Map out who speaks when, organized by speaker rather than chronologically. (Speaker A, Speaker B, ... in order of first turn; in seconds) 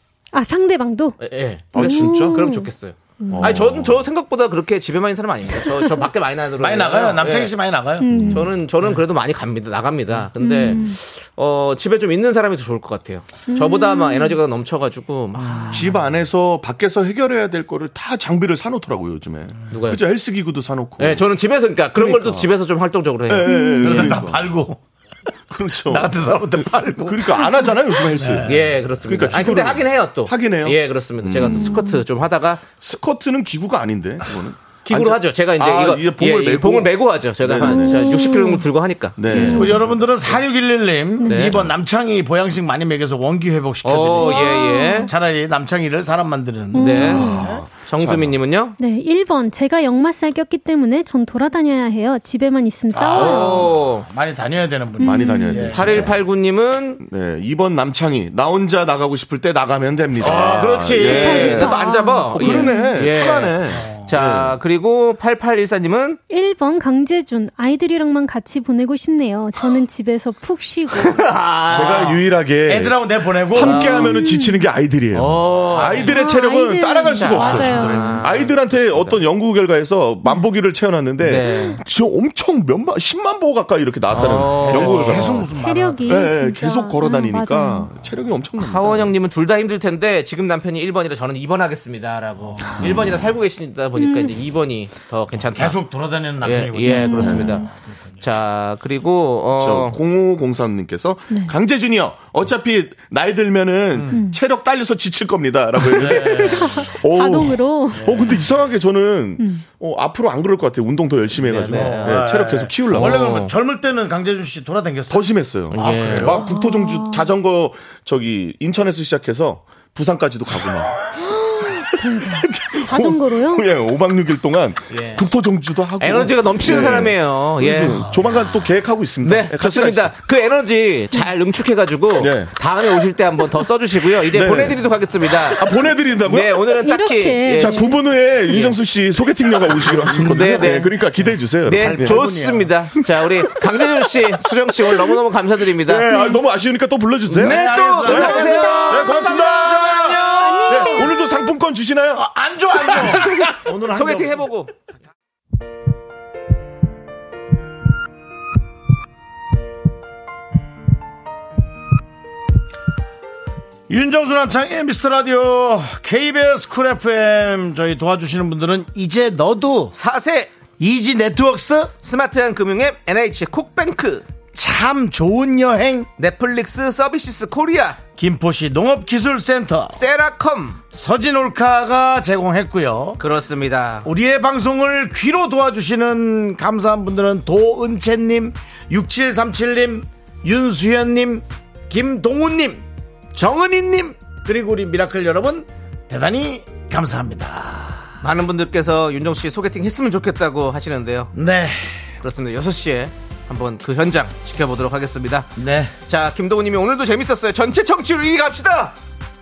Speaker A: 0.3-3.6, 5.7-6.0, 8.0-8.6, 10.4-11.0, 13.5-14.4, 23.5-24.1, 31.5-32.0, 37.6-38.7, 39.3-39.7, 44.2-45.1, 46.7-47.5, 48.8-53.7, 55.0-55.7, 61.2-63.0, 66.3-71.4, 74.0-74.7, 76.0-78.2, 85.5-87.9, 94.0-94.4, 96.8-97.7, 106.7-108.2, 109.4-109.7, 116.4-117.3, 121.2-123.7, 136.8-138.0, 146.1-146.4, 150.3-151.4
Speaker B: 1.2-7.5, 8.3-15.9, 19.7-20.0, 21.0-23.8, 28.4-32.7, 34.9-40.4, 41.2-41.6, 43.9-45.1, 46.8-48.8, 53.1-54.1, 55.6-57.0, 60.2-66.2, 71.0-72.2, 73.6-74.3, 75.1-76.2, 77.1-79.2, 81.2-81.8, 84.1-85.5, 88.6-95.8, 96.4-97.7, 98.2-100.0, 106.0-106.5, 111.4-112.3, 112.9-113.5, 115.7-116.5, 124.9-125.2, 126.0-128.0, 129.2-135.7, 136.2-137.9, 138.5-138.8, 140.1-141.0, 141.6-146.2, 147.3-150.9, 152.9-154.7, 169.9-170.5, 172.0-174.3, 176.2-178.0, 179.9-180.8, 183.2-184.1, 198.2-201.3, 202.2-205.5, 206.1-208.9
Speaker C: 1.7-2.5, 3.3-4.0, 8.1-8.5, 15.7-21.3, 22.0-22.5, 23.3-24.5, 25.5-26.1, 27.0-31.8, 32.7-38.2, 39.2-39.9, 47.0-48.4, 55.0-56.2, 57.0-61.8, 62.3-64.6, 71.7-89.2, 92.8-93.3, 97.2-97.5, 99.5-113.4, 115.1-121.1, 121.9-130.1, 132.2-132.5, 134.3-136.7, 137.5-142.4, 145.8-152.3
Speaker D: 6.6-8.3, 15.5-16.0, 23.8-24.8, 25.8-28.5, 39.5-47.5, 52.9-56.1, 60.2-61.7, 63.7-64.1, 72.7-74.0, 75.8-76.1, 77.4-77.8, 84.6-86.3, 92.6-93.2, 95.5-97.9, 103.9-104.2, 105.9-106.9, 108.0-108.4, 111.6-116.5, 127.9-128.6, 139.9-140.6, 141.7-142.7, 147.3-151.1, 152.1-154.4, 163.9-169.9, 170.8-171.9, 174.5-176.1, 178.2-180.0, 180.9-183.2, 184.0-198.2, 201.3-202.0, 205.6-205.9